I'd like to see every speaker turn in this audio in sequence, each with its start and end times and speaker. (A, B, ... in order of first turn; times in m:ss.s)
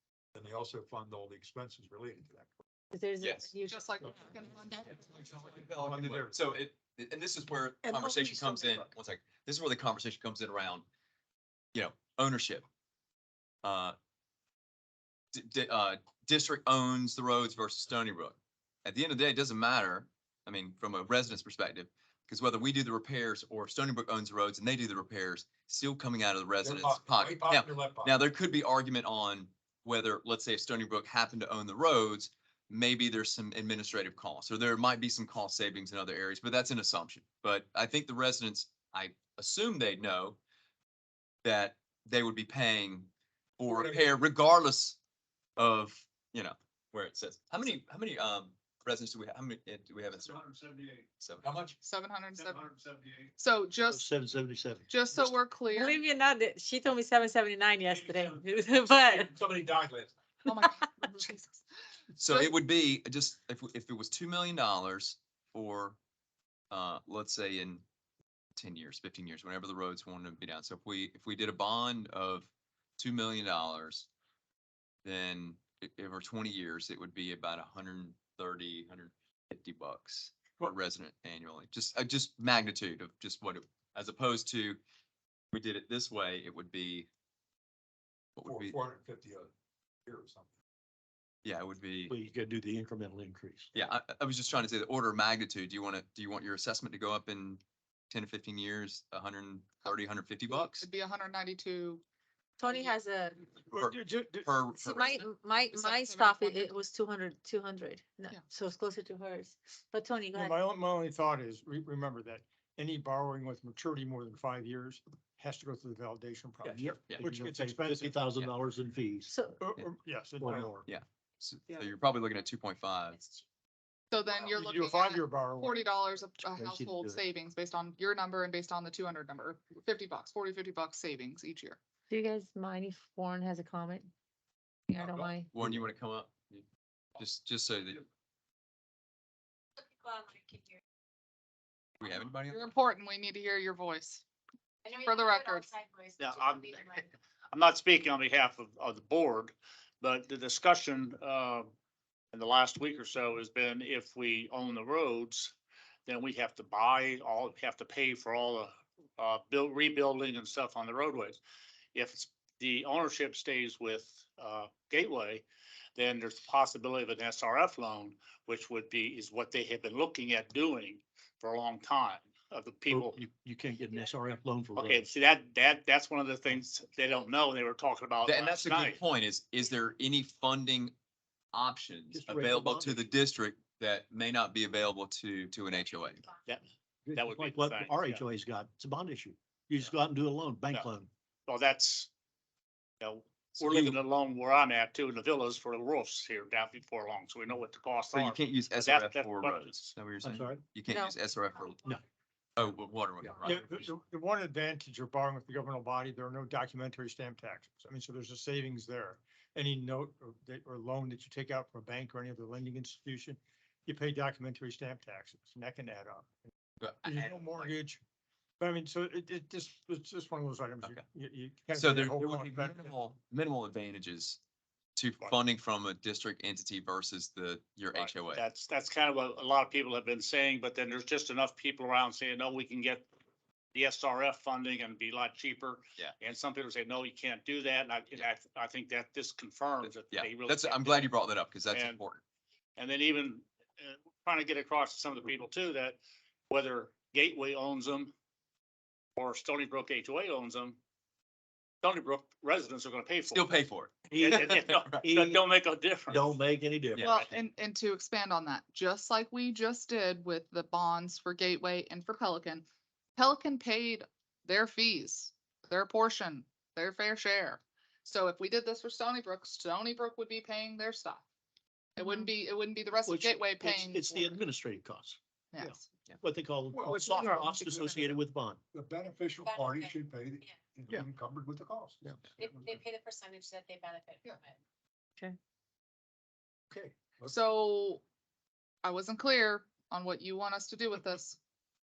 0:00.3-0:02.5 A
0:02.9-0:03.8 B
0:03.2-0:03.5 C
0:03.7-0:05.4 D
0:04.9-0:10.8 C
0:05.8-0:06.4 A
0:11.7-0:12.6 C
0:13.6-0:14.0 C
0:15.3-0:40.4 C
0:26.6-0:28.2 A
0:41.4-0:45.0 C
0:43.6-0:44.1 A
0:45.6-0:50.4 C
0:50.2-0:51.8 A
0:51.2-0:51.5 C
0:51.8-0:52.7 D
0:52.5-0:53.0 E
0:52.5-0:53.3 A
0:53.4-0:54.1 D
0:53.8-0:54.9 F
0:54.9-0:56.0 D
0:55.7-0:59.4 B
0:58.9-1:00.2 A
1:00.5-1:01.6 D
1:02.2-1:06.0 C
1:02.2-1:02.5 D
1:06.7-1:07.8 C
1:08.6-1:14.1 C
1:15.0-1:24.8 C
1:25.5-1:27.1 C
1:28.4-1:28.8 C
1:28.4-1:29.5 A
1:30.1-1:30.5 A
1:31.4-1:32.1 C
1:32.1-1:33.7 F
1:33.7-1:40.9 C
1:39.8-1:42.0 D
1:42.6-1:43.5 B
1:43.7-1:44.6 G
1:43.8-1:45.1 C
1:44.8-1:46.7 D
1:44.9-1:50.6 B
1:50.3-1:58.2 G
1:56.6-1:59.3 F
1:59.3-1:59.6 B
1:59.6-2:00.9 G
2:00.4-2:00.8 F
2:00.9-2:03.3 C
2:04.1-2:11.8 D
2:04.4-2:05.9 G
2:06.4-2:07.2 F
2:12.1-2:14.1 B
2:14.9-2:15.5 B
2:15.0-2:15.3 A
2:15.5-2:16.6 C
2:17.2-2:18.1 C
2:20.3-2:20.6 H
2:22.0-2:22.6 C
2:22.5-2:24.2 D
2:24.9-2:27.0 H
2:24.9-2:25.7 D
2:26.2-2:31.7 E
2:32.3-2:35.6 E
2:36.1-2:41.4 E
2:42.0-2:45.4 E
2:46.0-2:53.2 E
2:52.9-2:55.1 F
2:54.8-2:59.0 E
2:58.2-3:00.9 C
3:01.5-3:06.2 C
3:02.1-3:03.1 F
3:06.5-3:08.2 E
3:07.1-3:11.1 F
3:11.5-3:12.1 E
3:13.0-3:19.9 E
3:13.6-3:14.0 C
3:18.1-3:21.9 C
3:20.2-3:20.6 F
3:20.9-3:21.2 B
3:22.6-3:23.9 C
3:23.4-3:36.3 G
3:36.8-3:37.7 C
3:37.0-3:38.0 G
3:38.6-3:42.9 G
3:41.7-3:44.4 C
3:45.0-3:48.5 C
3:48.3-3:53.1 E
3:53.8-4:01.2 E
3:59.8-4:02.2 C
4:01.7-4:02.0 E
4:02.8-4:06.0 E
4:06.5-4:08.1 E
4:09.2-4:10.8 E
4:11.8-4:13.5 E
4:13.3-4:15.0 C
4:14.1-4:15.4 F
4:14.2-4:16.4 E
4:16.1-4:17.1 F
4:16.9-4:17.3 C
4:17.0-4:22.6 D
4:23.2-4:31.2 D
4:32.0-4:34.4 D
4:33.1-4:38.6 F
4:35.5-4:35.9 D
4:36.7-4:38.2 A
4:37.1-4:37.8 B
4:38.7-4:42.8 A
4:39.5-4:39.9 H
4:42.4-4:44.5 H
4:46.7-4:47.4 A
4:47.3-4:48.0 D
4:48.8-4:51.4 D